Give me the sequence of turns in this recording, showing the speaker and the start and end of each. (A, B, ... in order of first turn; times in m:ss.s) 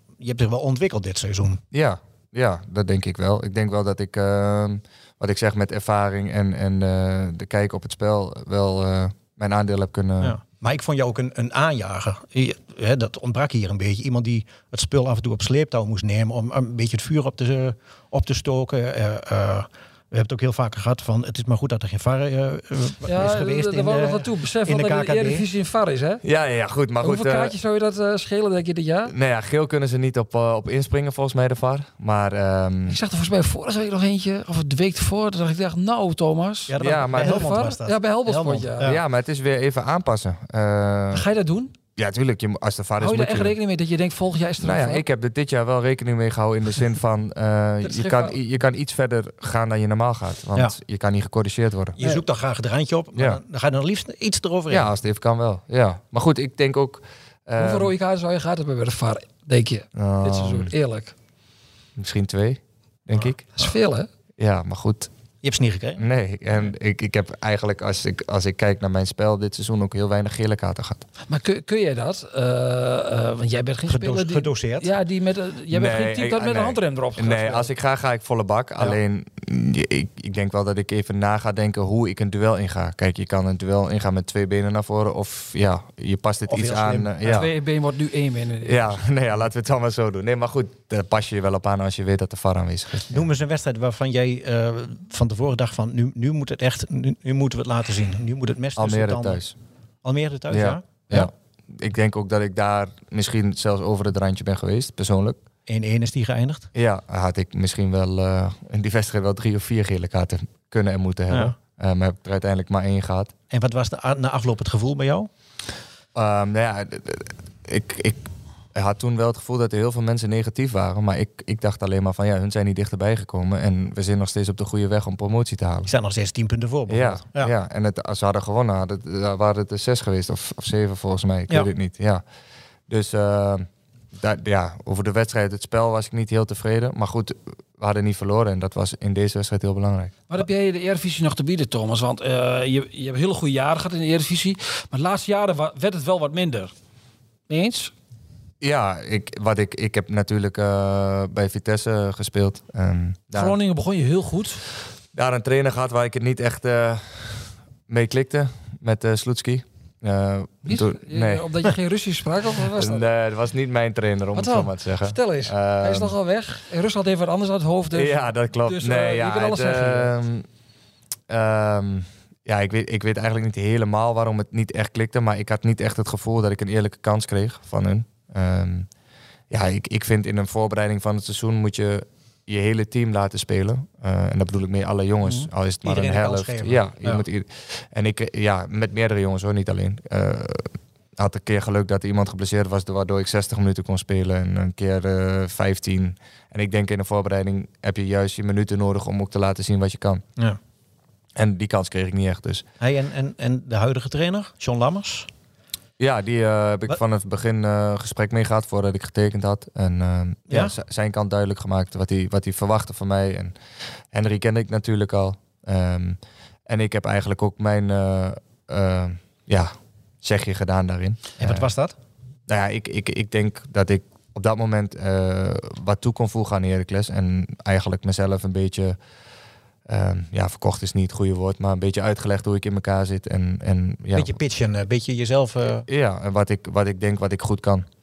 0:00.2-0:01.6 A
0:01.7-0:10.4 B
0:10.2-0:25.4 A
0:23.0-0:26.2 C
0:26.2-0:27.6 B
0:27.0-0:29.1 C
0:29.1-0:33.0 B
0:32.9-0:38.9 C
0:36.7-0:39.0 A
0:36.8-0:37.6 B
0:38.8-0:41.3 B
0:41.1-0:41.7 C
0:42.0-0:43.6 B
0:43.0-0:45.0 C
0:44.6-0:52.0 B
0:47.8-0:48.4 C
0:52.0-0:54.9 A
0:53.1-0:53.4 B
0:54.7-0:57.9 B
0:57.6-1:01.1 C
1:00.0-1:00.7 B
1:02.0-1:03.6 B
1:03.6-1:04.1 C
1:04.4-1:05.1 B
1:05.4-1:06.0 A
1:06.0-1:11.0 B
1:11.3-1:17.7 C
1:13.9-1:14.9 A
1:15.7-1:27.5 B
1:26.5-1:27.4 A
1:27.2-1:29.0 C
1:28.6-1:33.3 B
1:33.1-1:39.4 A
1:38.8-1:39.6 B
1:40.0-1:41.3 A
1:40.5-1:45.4 B
1:45.7-1:46.7 A
1:46.7-1:53.3 B
1:53.5-1:55.3 A
1:56.2-2:05.9 B
2:05.9-2:07.5 A
2:06.9-2:12.2 B
2:12.9-2:20.2 B
2:20.3-2:26.7 C
2:27.5-2:27.9 C
2:28.6-2:33.6 B
2:33.3-2:34.6 C
2:35.1-2:41.5 B
2:40.6-2:43.0 C
2:42.7-2:46.1 B
2:44.4-2:50.1 C
2:47.9-2:50.4 B
2:51.3-2:58.9 B
2:59.5-3:20.2 B
3:05.8-3:07.2 A
3:21.4-3:22.6 B
3:22.8-3:25.3 A
3:26.0-3:33.6 B
3:30.5-3:30.7 A
3:34.1-3:41.7 B
3:41.4-3:42.0 A
3:42.5-3:49.0 B
3:49.9-3:54.4 B
3:54.2-3:55.9 A
3:55.9-3:57.9 B